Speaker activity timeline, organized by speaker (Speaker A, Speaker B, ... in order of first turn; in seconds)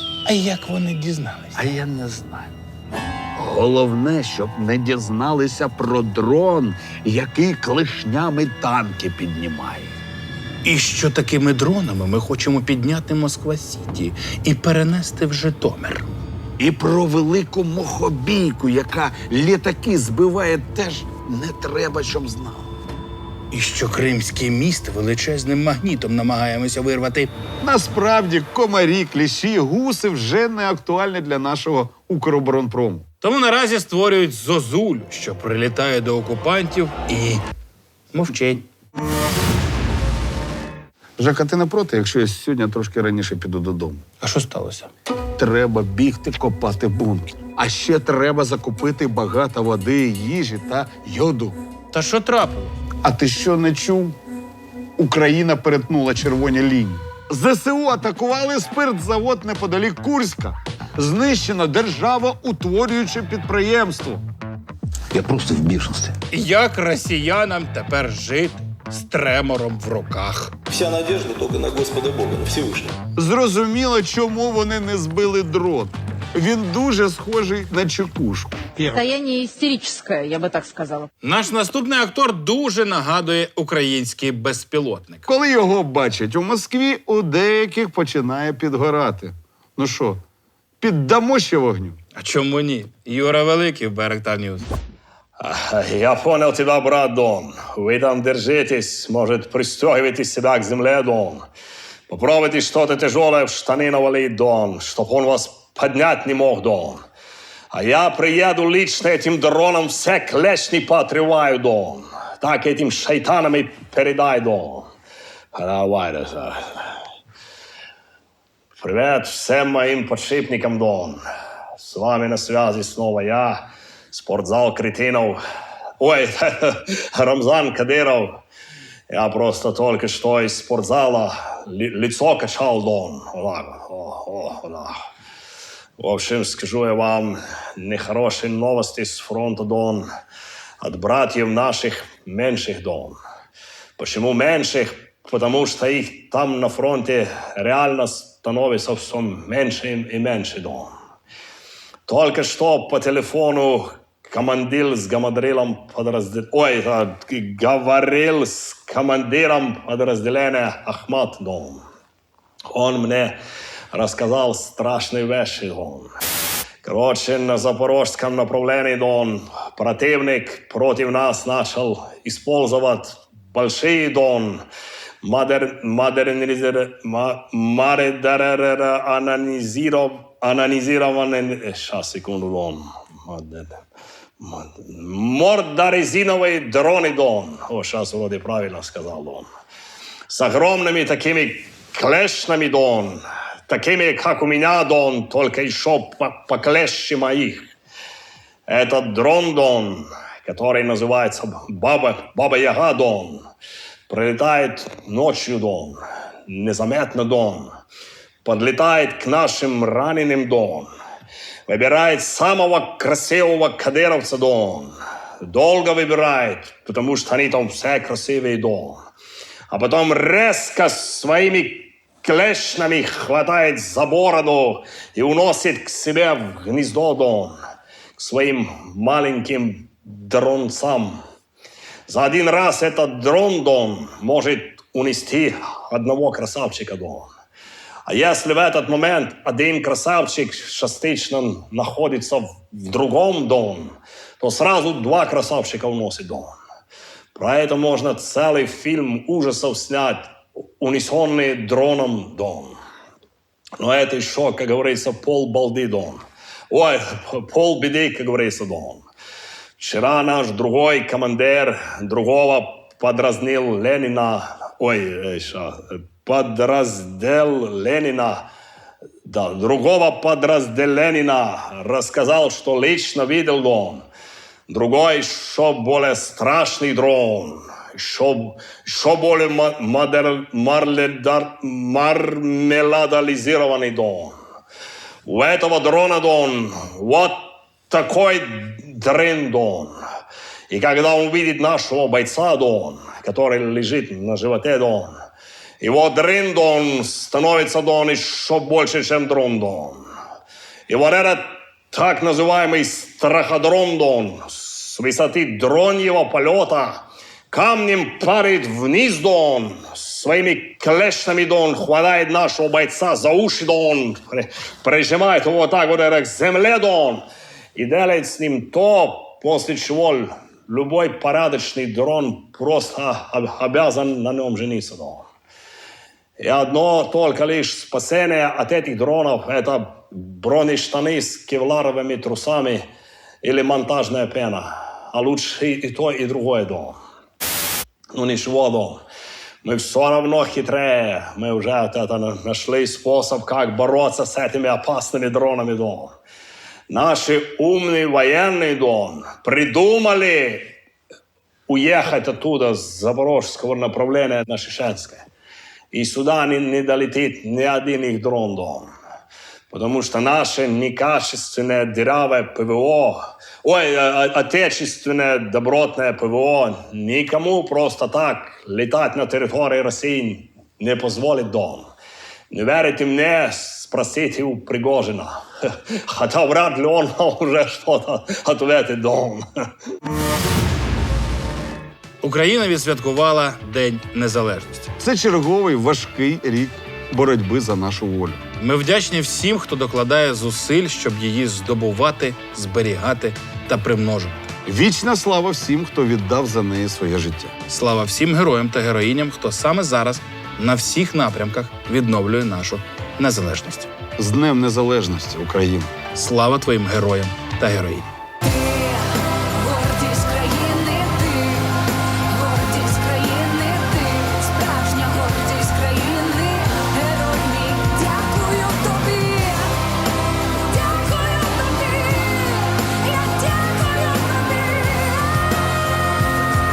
Speaker A: 0.3-1.6, 10.7-16.1, 23.5-27.3, 33.2-37.4, 38.1-38.6, 44.2-44.9, 51.9-52.8, 66.3-70.5, 81.2-85.2, 92.2-94.7, 382.2-384.9, 388.6-394.4, 397.7-403.9, 406.1-408.1
Speaker B: 1.6-2.5, 3.4-9.9, 16.6-22.7, 27.6-33.1, 41.2-44.0, 45.4-51.6, 53.0-54.2, 55.0-64.2, 73.2-78.6, 85.3-90.2, 90.8-92.0, 385.0-388.4, 394.7-397.5, 404.2-405.9
Speaker C: 70.7-72.9
Speaker D: 78.9-81.1, 408.4-419.8, 420.5-425.8
Speaker E: 95.4-101.4, 102.1-107.0, 107.7-114.9, 115.5-116.6, 118.8-121.2, 121.8-125.4, 126.0-128.4, 129.1-134.9, 136.0-140.1, 140.8-143.2, 144.0-150.9, 152.1-161.8, 162.7-163.4, 163.9-166.1, 166.8-174.6, 175.2-183.7, 184.4-189.5, 190.3-197.7, 198.7-203.4, 204.1-207.7, 208.4-210.9, 211.7-214.9, 215.4-219.0, 219.7-227.6, 228.2-231.2, 232.1-237.3, 238.1-246.6, 247.3-252.8, 253.8-259.1, 259.8-268.5, 269.2-274.1, 274.7-284.3, 285.3-289.9, 290.7-295.1, 295.8-300.0, 300.9-325.3, 326.4-332.8, 333.4-337.0, 338.1-339.0, 339.6-346.1, 346.9-350.7, 351.7-355.3, 355.9-358.9, 359.7-371.9, 372.5-379.4